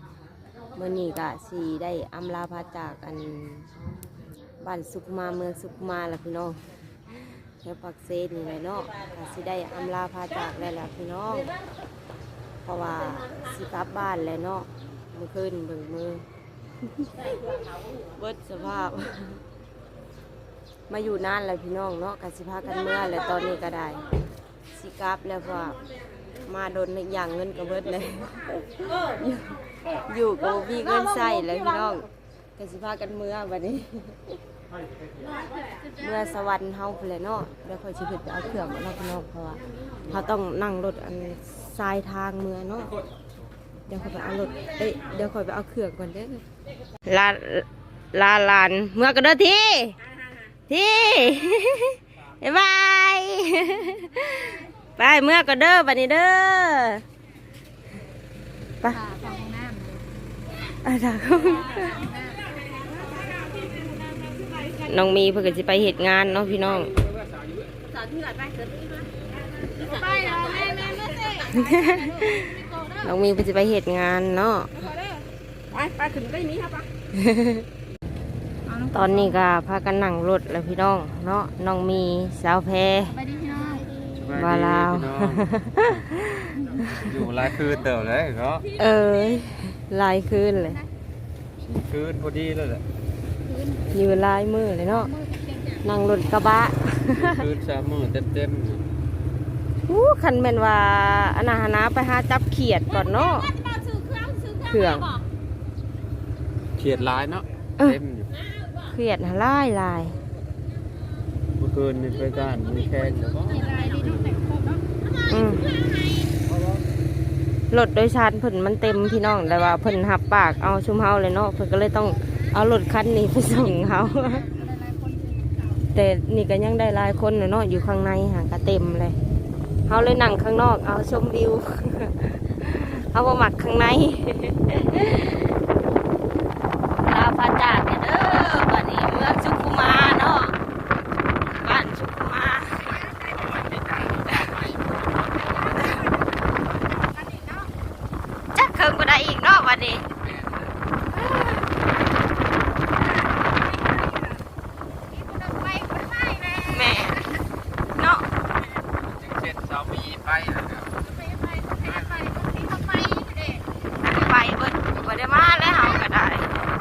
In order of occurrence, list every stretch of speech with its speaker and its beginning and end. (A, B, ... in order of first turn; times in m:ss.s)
0:00.8-0:03.7 A
0:04.6-0:06.6 A
0:07.6-0:11.5 A
0:12.6-0:16.2 A
0:18.2-0:19.4 A
0:20.9-0:24.0 A
0:24.7-0:25.7 A
0:26.4-0:32.0 A
0:32.6-0:34.3 A
0:36.0-0:42.9 A
0:43.9-0:46.4 A
0:47.0-0:49.9 A
0:50.7-0:57.0 A
0:58.9-1:00.0 B
1:00.8-1:02.0 A
1:01.8-1:02.4 B
1:04.8-1:06.9 A
1:09.8-1:13.1 B
1:11.5-1:14.7 A
1:14.8-1:15.1 B
1:15.7-1:16.8 B
1:17.1-1:17.6 A
1:18.6-1:19.4 B
1:18.9-1:23.2 A
1:23.1-1:24.0 B
1:24.1-1:25.9 C
1:24.3-1:27.1 A
1:26.8-1:28.7 C
1:28.7-1:30.8 A
1:31.7-1:32.8 C
1:33.5-1:33.8 B
1:33.9-1:35.1 A
1:35.0-1:35.8 B
1:35.8-1:37.4 A
1:37.1-1:38.8 C
1:39.9-1:43.5 A
1:43.2-1:45.2 B
1:44.7-1:45.1 A
1:46.8-1:48.3 C
1:48.9-1:50.2 A
1:51.6-1:53.8 C
1:53.4-1:55.0 B
1:55.3-1:55.7 A
1:55.5-1:56.3 B
1:57.7-2:04.5 A
2:04.3-2:05.5 B
2:05.9-2:09.2 A
2:09.9-2:15.5 A
2:17.0-2:20.5 A
2:21.4-2:23.0 A
2:22.9-2:23.8 B
2:23.4-2:24.7 C
2:24.3-2:24.5 A
2:25.4-2:27.7 B
2:28.5-2:30.0 A
2:31.2-2:31.6 A
2:33.7-2:34.4 B
2:35.1-2:37.2 B
2:36.7-2:37.2 A
2:38.0-2:38.2 A
2:39.1-2:40.9 C
2:41.0-2:43.6 B
2:44.0-2:46.5 A
2:45.6-2:46.0 B